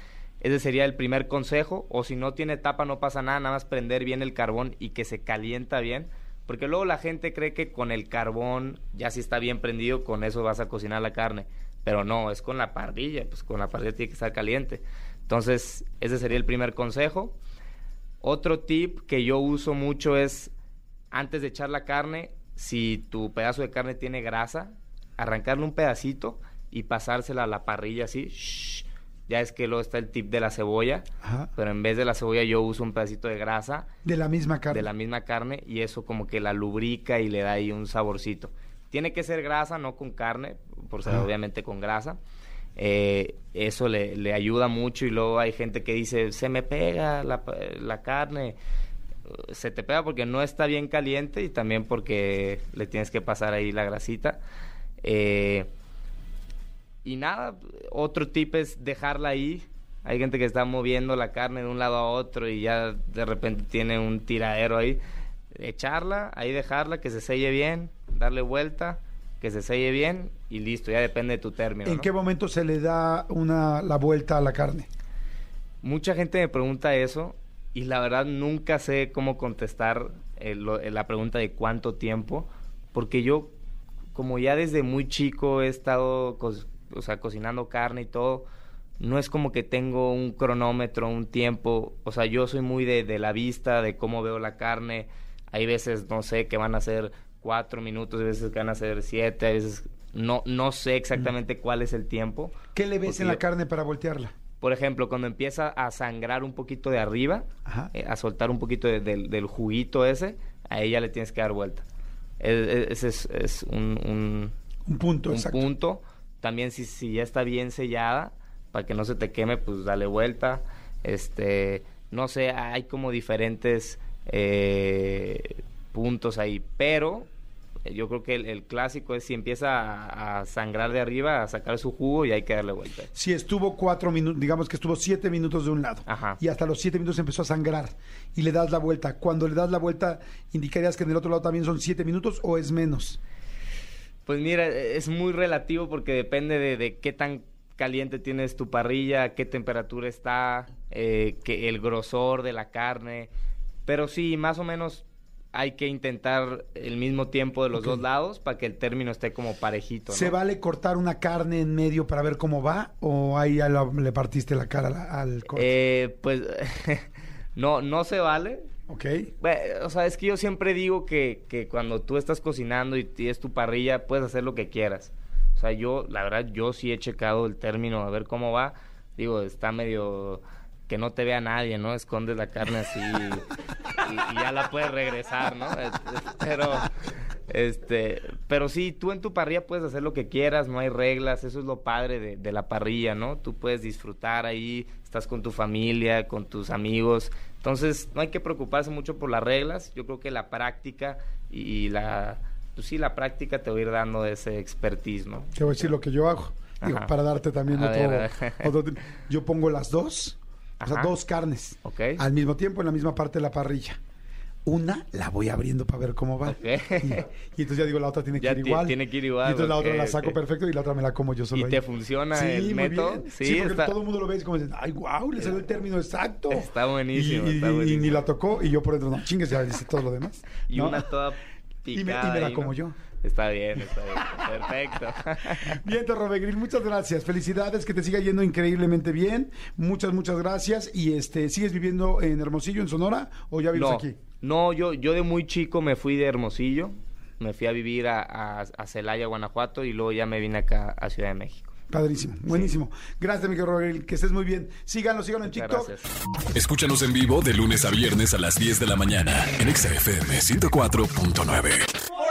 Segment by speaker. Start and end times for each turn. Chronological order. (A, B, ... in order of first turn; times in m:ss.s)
0:00.4-0:17.4 A
0:18.2-0:20.5 A
0:21.1-0:33.9 A
0:31.2-0:31.5 B
0:34.0-0:34.9 B
0:34.7-0:42.2 A
0:42.8-0:48.6 A
0:49.3-0:54.4 A
0:55.0-0:55.7 A
0:57.0-1:05.0 A
1:05.5-1:12.1 A
1:11.8-1:14.9 B
1:15.8-1:23.5 A
1:24.1-1:28.5 A
1:29.0-1:43.4 A
1:42.7-1:44.3 B
1:44.6-1:51.8 A
1:47.6-1:47.9 B
1:52.4-1:54.5 A
1:54.8-1:55.6 B
1:55.3-2:07.3 A
2:07.8-2:13.1 A
2:13.1-2:23.2 B
2:16.1-2:16.4 A
2:24.2-2:33.3 A
2:33.8-2:40.3 A
2:37.8-2:38.0 B
2:40.1-2:45.7 B
2:45.5-2:48.6 A
2:48.9-2:49.3 B
2:49.4-3:06.9 A
3:07.5-3:25.9 A
3:25.5-3:34.0 B
3:26.8-3:27.1 A
3:27.7-3:28.7 A
3:30.8-3:31.1 A
3:31.8-3:32.2 A
3:34.6-3:41.8 B
3:36.4-3:37.2 A
3:38.4-3:40.4 A
3:41.5-3:43.9 A
3:42.3-3:51.0 B
3:46.5-3:48.2 A
3:50.7-3:55.8 A
3:51.9-3:53.0 B
3:54.2-3:54.5 B
3:55.6-4:04.2 B
4:03.7-4:11.7 A
4:11.9-4:15.9 B
4:15.4-4:16.1 A
4:16.5-4:22.1 C